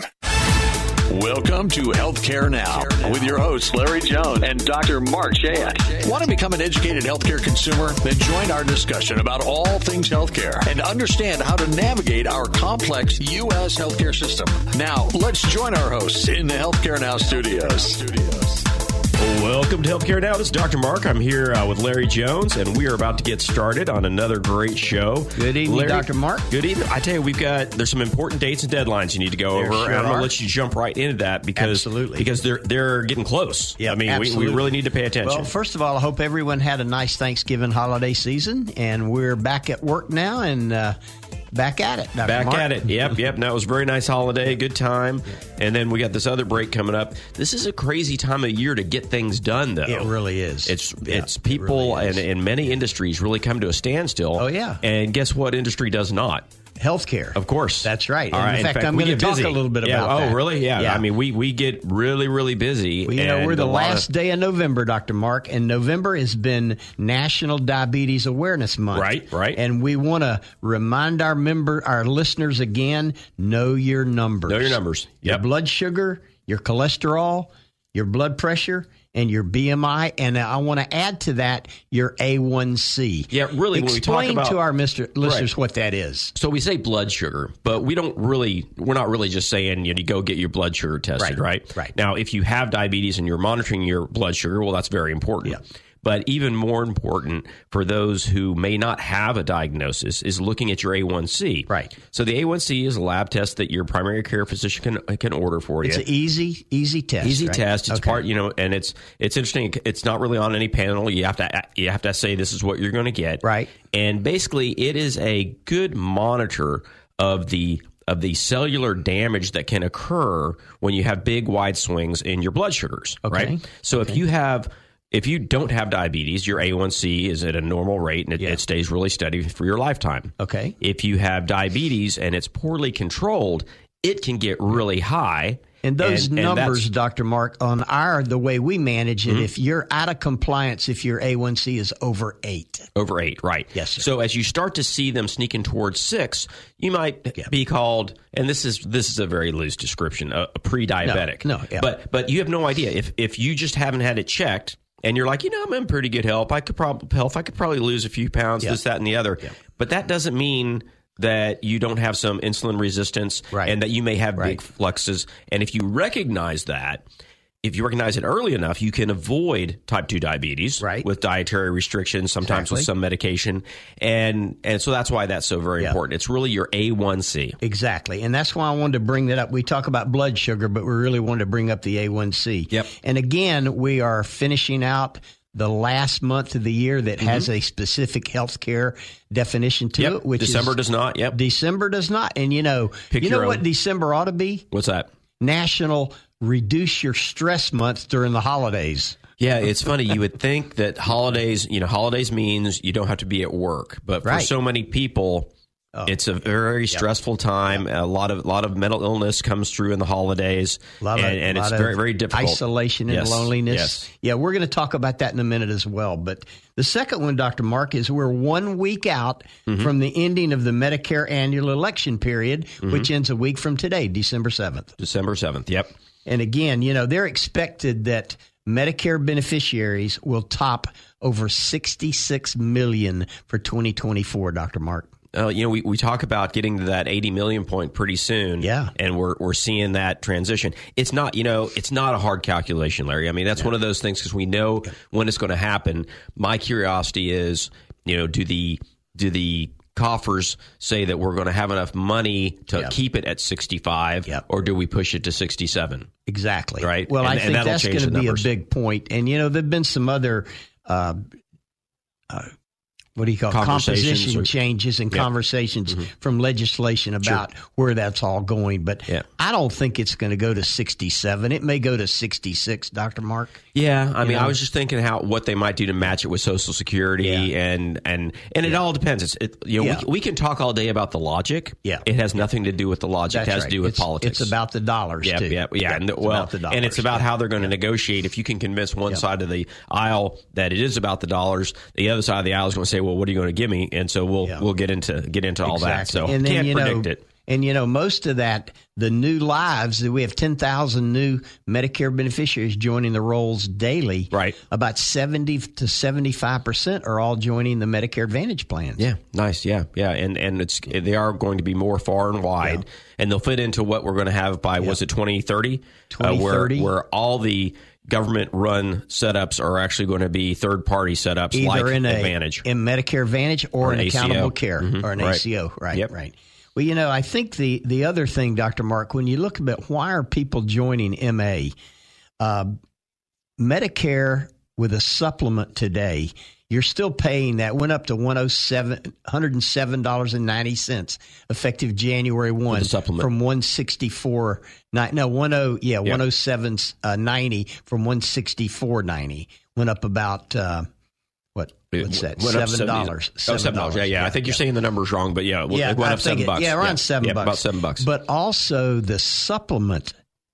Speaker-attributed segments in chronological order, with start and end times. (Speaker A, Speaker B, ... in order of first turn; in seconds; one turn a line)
Speaker A: 1.1-18.7
Speaker B: 19.2-35.5
Speaker C: 25.4-26.4
Speaker C: 29.5-30.3
Speaker C: 31.6-32.3
Speaker C: 33.8-34.7
Speaker C: 35.2-41.0
Speaker C: 41.5-42.9
Speaker B: 42.2-50.1
Speaker C: 49.9-52.2
Speaker B: 50.6-56.4
Speaker C: 54.4-54.8
Speaker C: 56.8-61.0
Speaker B: 57.3-64.0
Speaker C: 63.1-86.3
Speaker B: 68.9-69.6
Speaker B: 74.5-75.4
Speaker B: 83.3-84.6
Speaker B: 85.2-85.5
Speaker B: 86.3-106.0
Speaker C: 91.2-91.9
Speaker C: 105.8-108.2
Speaker B: 107.2-136.8
Speaker C: 113.4-113.7
Speaker C: 123.2-124.2
Speaker C: 130.4-130.8
Speaker C: 135.8-142.9
Speaker B: 142.9-167.0
Speaker C: 143.7-144.0
Speaker C: 151.0-151.9
Speaker B: 167.6-177.6
Speaker C: 170.8-171.0
Speaker C: 172.4-172.9
Speaker C: 177.6-190.7
Speaker B: 187.2-187.5
Speaker B: 190.0-191.4
Speaker C: 191.3-194.7
Speaker B: 193.1-193.6
Speaker B: 194.7-195.1
Speaker C: 195.4-199.2
Speaker B: 199.4-205.5
Speaker C: 204.2-204.5
Speaker B: 206.1-214.0
Speaker C: 211.0-224.9
Speaker B: 225.0-225.9
Speaker C: 226.2-235.1
Speaker B: 235.3-256.1
Speaker C: 238.6-238.9
Speaker C: 256.3-261.2
Speaker B: 256.8-258.5
Speaker C: 263.1-273.6
Speaker B: 263.5-264.5
Speaker B: 273.7-284.5
Speaker C: 274.2-274.5
Speaker C: 277.2-277.5
Speaker C: 283.3-287.2
Speaker B: 285.2-297.2
Speaker C: 295.6-309.0
Speaker B: 304.3-304.6
Speaker B: 309.0-322.6
Speaker C: 316.1-316.9
Speaker C: 321.5-331.7
Speaker B: 323.8-325.4
Speaker C: 332.4-332.7
Speaker C: 333.6-350.9
Speaker B: 342.7-343.3
Speaker C: 351.5-354.6
Speaker B: 351.9-358.1
Speaker C: 355.7-360.1